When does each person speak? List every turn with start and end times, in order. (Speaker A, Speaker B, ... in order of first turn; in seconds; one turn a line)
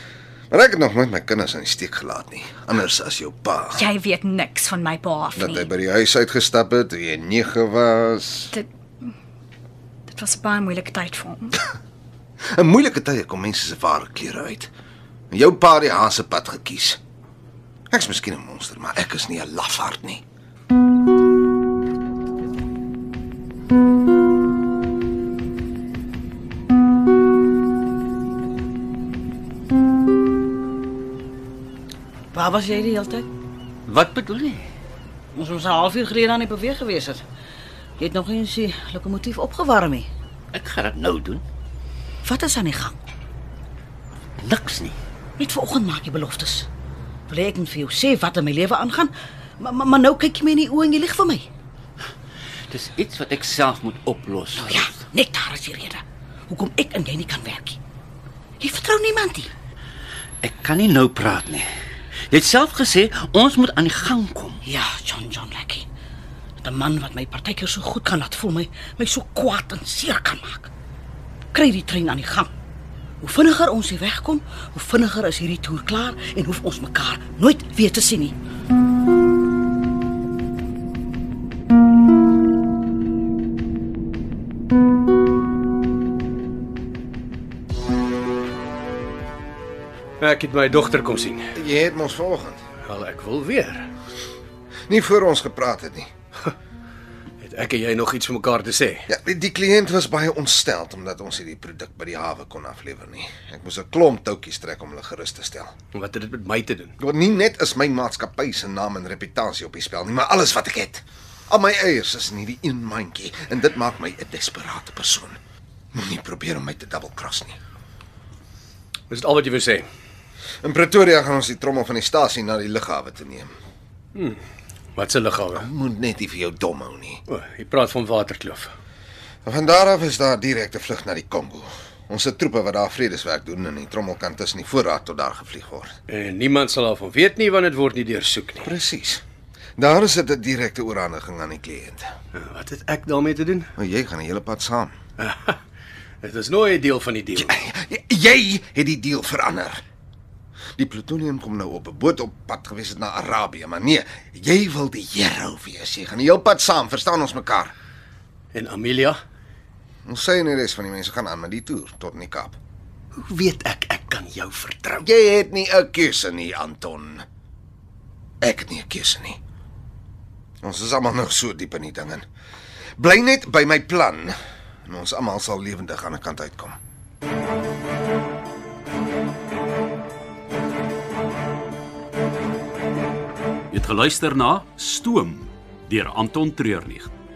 Speaker A: 0.5-3.9
Speaker B: 3.7-5.7
Speaker A: 5.4-8.5
Speaker B: 8.5-9.2
Speaker B: 10.1-11.6
Speaker A: 12.5-14.7
Speaker A: 15.3-17.0
Speaker A: 17.9-20.2
Speaker C: 32.3-33.3
Speaker D: 33.9-34.7
Speaker C: 35.3-37.2
Speaker C: 38.0-40.1
Speaker D: 40.5-41.4
Speaker C: 42.2-43.0
Speaker D: 44.4-45.0
Speaker C: 45.4-46.7
Speaker C: 47.3-51.5
Speaker D: 52.7-55.0
Speaker C: 54.6-57.8
Speaker C: 58.6-59.5
Speaker D: 60.4-61.7
Speaker D: 62.3-64.6
Speaker C: 64.6-65.9
Speaker C: 66.6-70.7
Speaker C: 71.5-72.5
Speaker C: 73.2-78.3
Speaker E: 90.2-91.5
Speaker A: 91.5-92.6
Speaker E: 92.8-93.9
Speaker A: 94.9-96.1
Speaker E: 97.4-99.1
Speaker A: 99.1-105.7
Speaker E: 105.9-106.9
Speaker A: 107.0-115.4
Speaker A: 116.0-117.6
Speaker E: 119.1-119.9
Speaker A: 120.6-123.5
Speaker E: 124.1-124.4
Speaker E: 125.0-125.7
Speaker A: 125.6-127.2
Speaker E: 127.3-128.7
Speaker A: 129.5-135.9
Speaker E: 136.1-138.7
Speaker A: 138.6-139.2
Speaker A: 139.8-142.1
Speaker E: 142.3-143.7
Speaker A: 143.8-144.9
Speaker E: 145.2-145.6
Speaker E: 146.2-147.6
Speaker A: 147.4-149.8
Speaker A: 150.8-157.7
Speaker E: 158.5-159.2
Speaker A: 160.1-162.6
Speaker E: 163.1-165.1
Speaker A: 165.0-167.2
Speaker A: 168.4-169.4
Speaker A: 170.6-172.2
Speaker A: 173.0-174.3
Speaker A: 174.9-176.8
Speaker F: 183.7-187.1